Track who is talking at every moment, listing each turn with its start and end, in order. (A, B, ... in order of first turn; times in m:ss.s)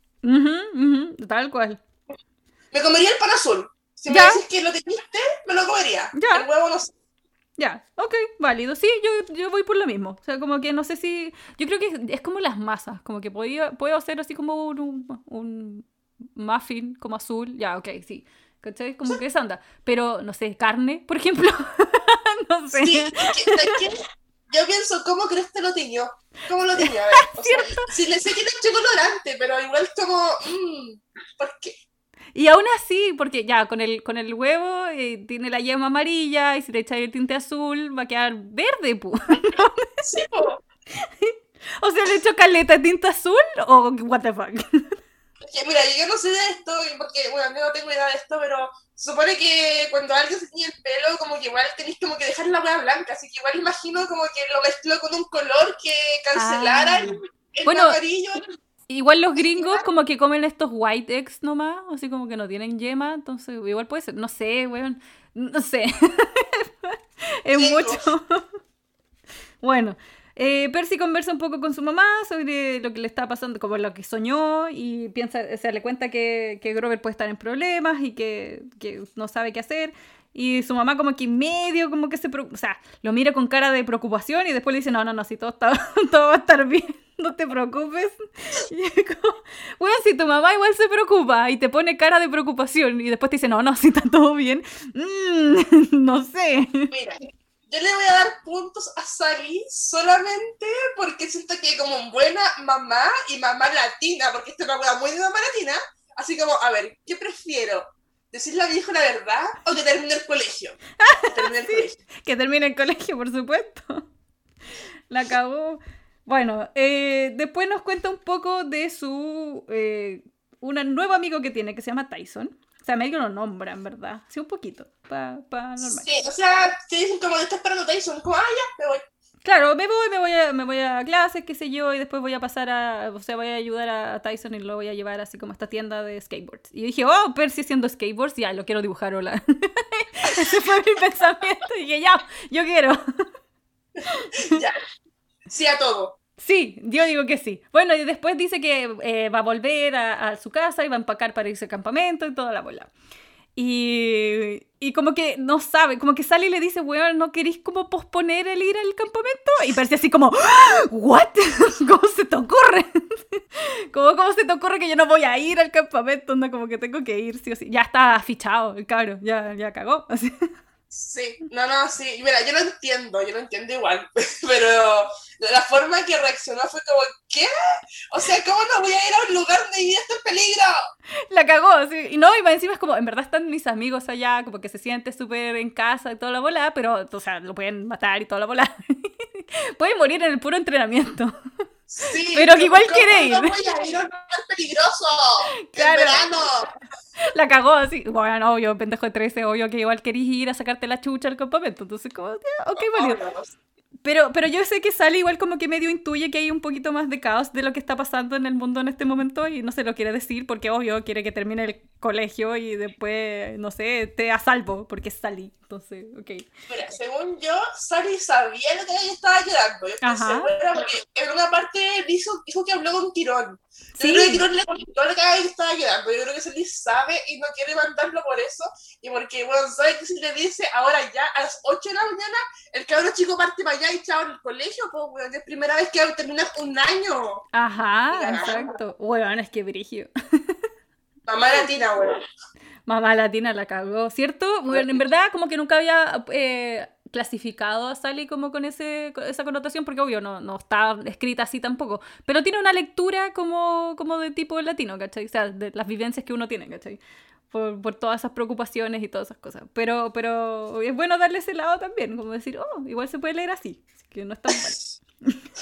0:00.2-0:01.8 A
0:02.7-0:06.9 B
0:04.1-0:04.4 A
0:06.1-0:06.4 A
0:07.6-0:23.8 A
0:22.8-0:31.7 B
0:26.8-0:27.9 A
0:32.4-0:39.9 A
0:40.0-0:40.6 B
0:41.0-0:45.0 A
0:45.5-0:58.4 B
0:56.4-0:58.0 A
0:58.9-1:08.4 A
0:59.5-0:59.8 B
1:07.5-1:08.0 B
1:09.6-1:36.9 A
1:36.9-1:52.0 B
1:51.0-1:54.0 A
1:55.1-2:06.1 A
2:05.9-2:09.0 B
2:09.4-2:23.0 A
2:24.0-2:24.6 A
2:24.4-2:24.8 B
2:25.5-2:26.2 B
2:26.4-2:32.9 A
2:33.6-2:50.5 A
2:50.9-2:57.5 B
2:58.1-3:00.8 B
3:01.3-3:11.3 A
3:11.9-3:16.7 B
3:12.3-3:13.5 A
3:15.7-3:16.2 A
3:17.2-3:23.2 A
3:22.8-3:23.5 B
3:24.0-3:36.5 A
3:36.7-3:57.4 B
3:40.0-3:40.5 A
3:44.0-3:44.4 A
3:57.5-4:00.6 A
3:58.1-3:58.7 B
4:01.3-4:02.2 B
4:02.8-4:17.0 A
4:04.7-4:05.0 B
4:17.5-4:25.4 A